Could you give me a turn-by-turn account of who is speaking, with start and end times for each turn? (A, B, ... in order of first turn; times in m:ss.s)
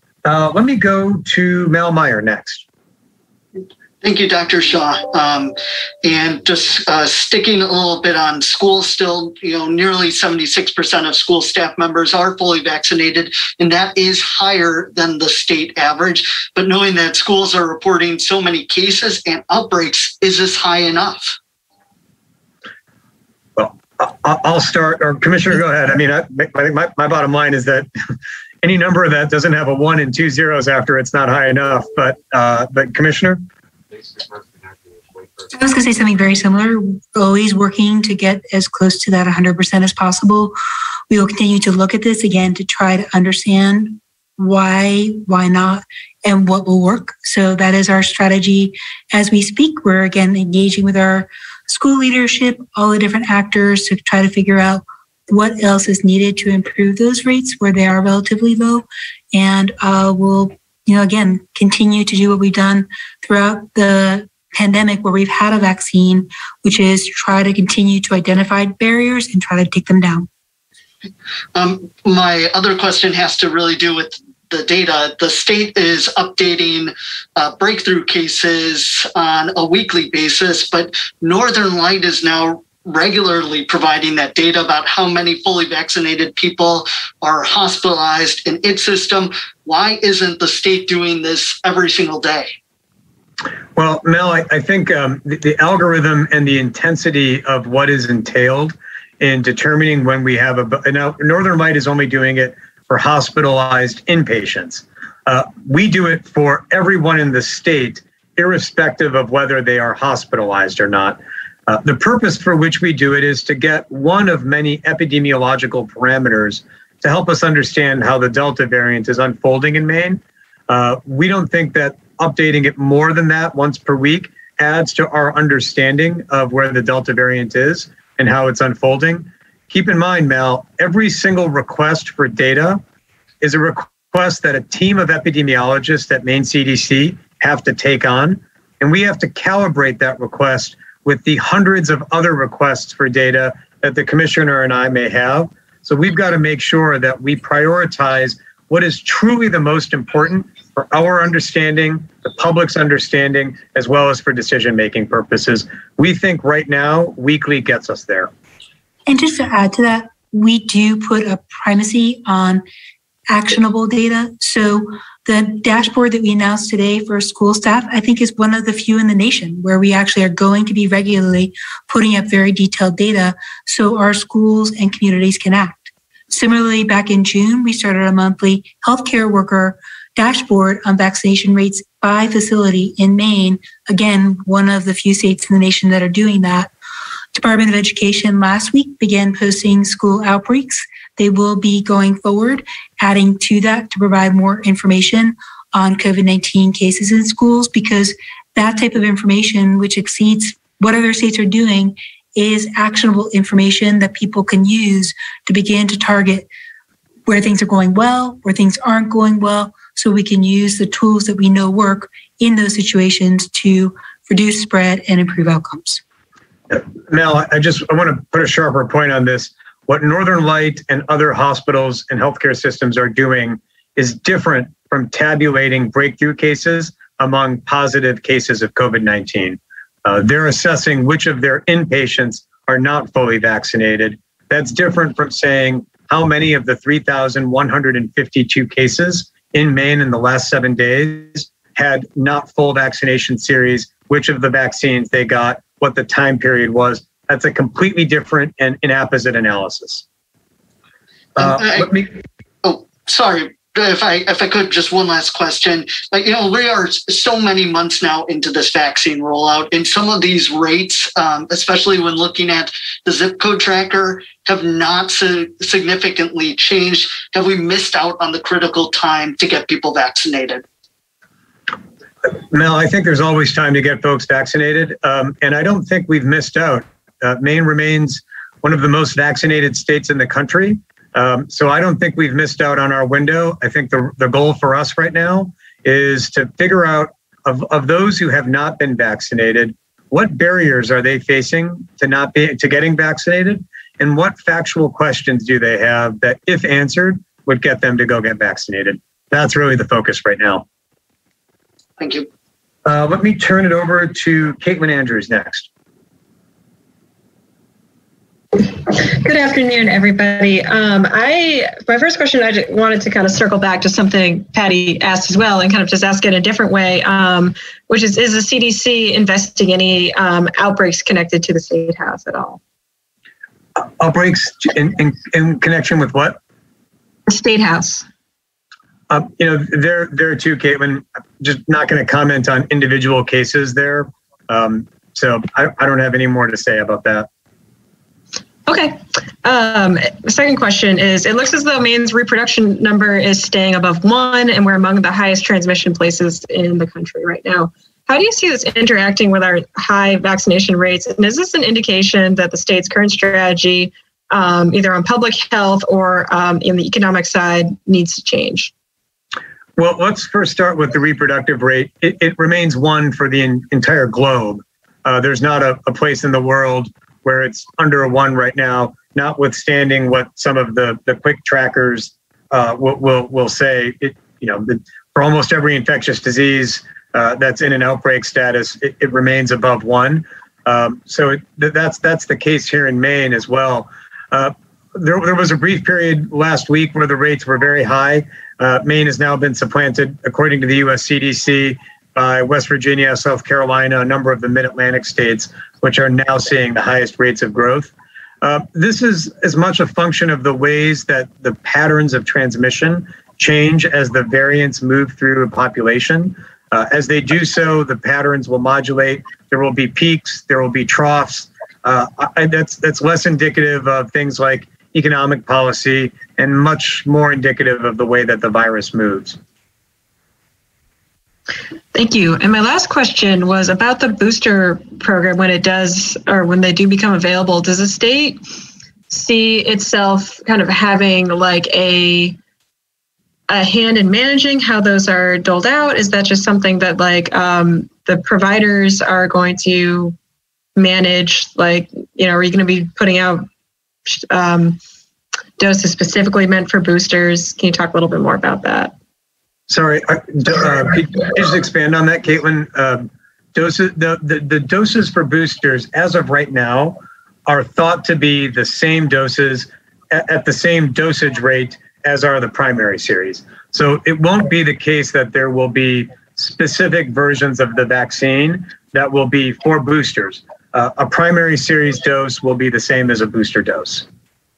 0:00.2-0:02.6 A
0:04.0-0:21.4 B
0:23.6-0:27.9 A
0:28.6-0:33.4 A
0:35.5-0:40.6 C
0:41.1-1:10.3 C
1:11.6-1:32.5 B
1:33.8-2:12.8 A
2:13.4-2:38.3 A
2:39.1-2:42.6 C
2:43.3-3:06.7 C
3:07.3-3:26.5 C
3:27.3-3:36.0 C
3:36.7-4:10.0 A
4:11.4-4:11.9 B
4:11.4-4:12.1 A
4:12.6-4:30.6 B
4:32.3-5:00.6 A
5:02.0-5:02.3 B
5:02.8-5:05.7 A
5:08.6-5:22.6 D
5:23.8-5:26.4 A
5:27.3-5:28.1 D
5:29.1-5:37.3 A
5:38.7-5:58.7 D
5:59.8-6:37.9 A
6:38.4-6:59.4 A
7:01.9-7:08.4 D
7:09.1-7:12.4 D
7:13.5-7:20.2 D
7:20.8-7:23.5 D
7:24.1-7:24.8 D
7:25.6-7:29.0 D
7:29.7-7:54.0 A